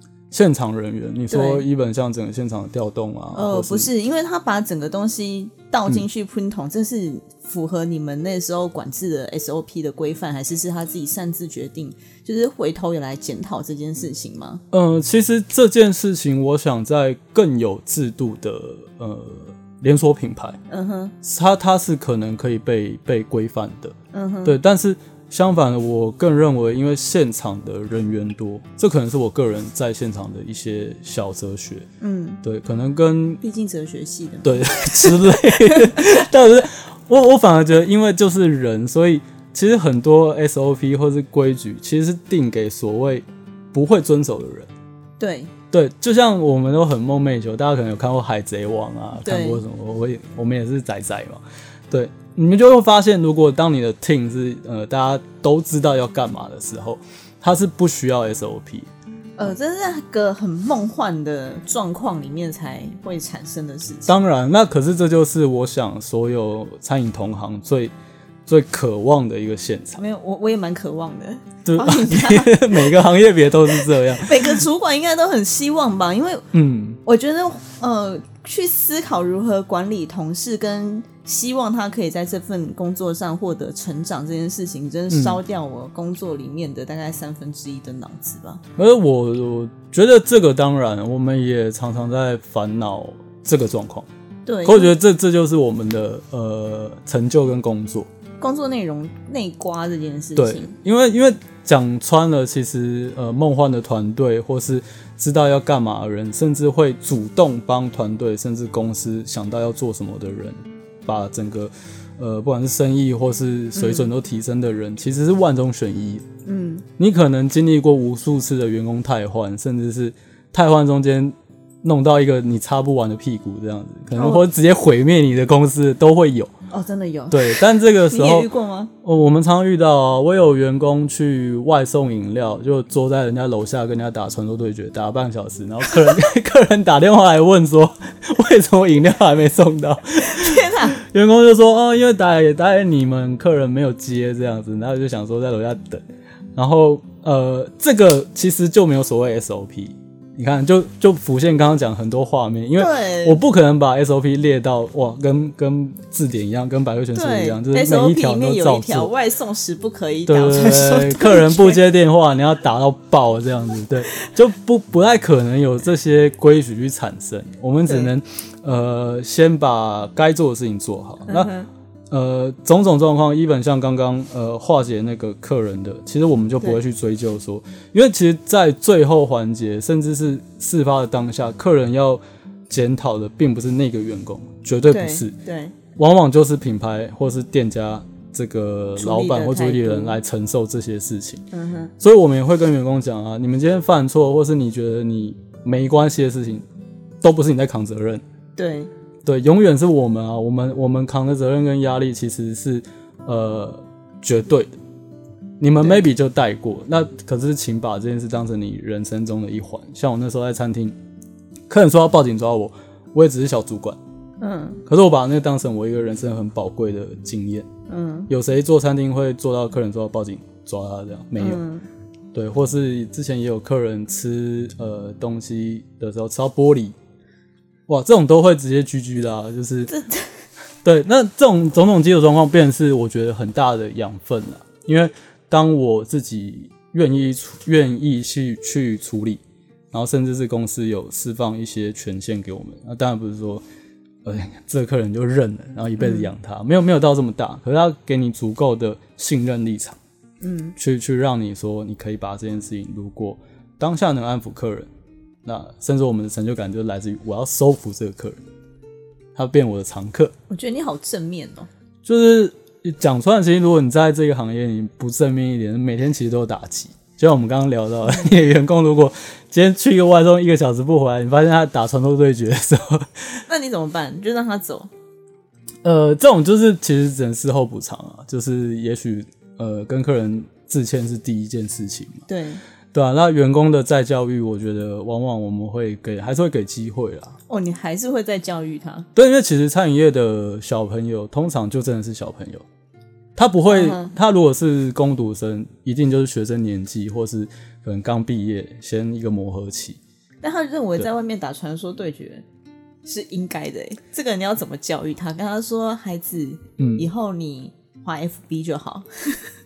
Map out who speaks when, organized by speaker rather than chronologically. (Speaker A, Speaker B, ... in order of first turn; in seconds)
Speaker A: 0.3-3.9, 14.7-20.6, 21.2-31.9, 32.4-33.4, 34.4-44.7, 45.7-58.9, 64.1-67.9, 68.5-70.0, 71.7-74.7, 76.5-77.0, 85.1-85.4, 88.8-94.1, 94.6-98.1, 100.4-116.2, 117.0-126.5, 127.3-128.5, 129.0-146.0, 146.6-159.1, 160.3-171.5, 172.1-185.3, 186.0-191.4, 192.0-196.7, 197.2-198.2, 199.2-204.7, 205.6-211.0, 211.7-214.0, 214.9-217.7, 218.3-221.6, 222.3-227.0, 227.9-229.9, 230.8-239.4, 239.9-243.6, 244.2-250.0, 250.8-254.9, 255.4-258.4, 259.4-260.4, 262.0-273.4, 275.8-282.2, 282.9-287.4, 289.1-292.6, 293.4-300.0, 306.8-307.1
Speaker B: 1.3-1.7, 3.3-14.6, 20.7-21.1, 24.1-24.6, 32.0-32.4, 33.4-36.2, 45.2-45.5, 49.2-49.6, 59.4-64.2, 70.0-73.0, 73.7-76.5, 77.0-88.6, 94.5-94.9, 98.4-100.7, 113.8-114.1, 116.5-116.8, 124.2-124.4, 126.7-128.9, 140.2-141.0, 152.8-153.4, 157.1-161.8, 171.3-171.7, 184.9-185.8, 189.0-190.2, 191.5-191.9, 198.6-198.9, 214.4-214.8, 217.9-218.3, 221.4-221.9, 229.9-230.4, 246.0-246.3, 250.4-250.8, 260.5-261.7, 273.5-274.9, 282.3-282.6, 287.5-289.1, 293.7-294.1, 300.4-302.4, 303.1-309.5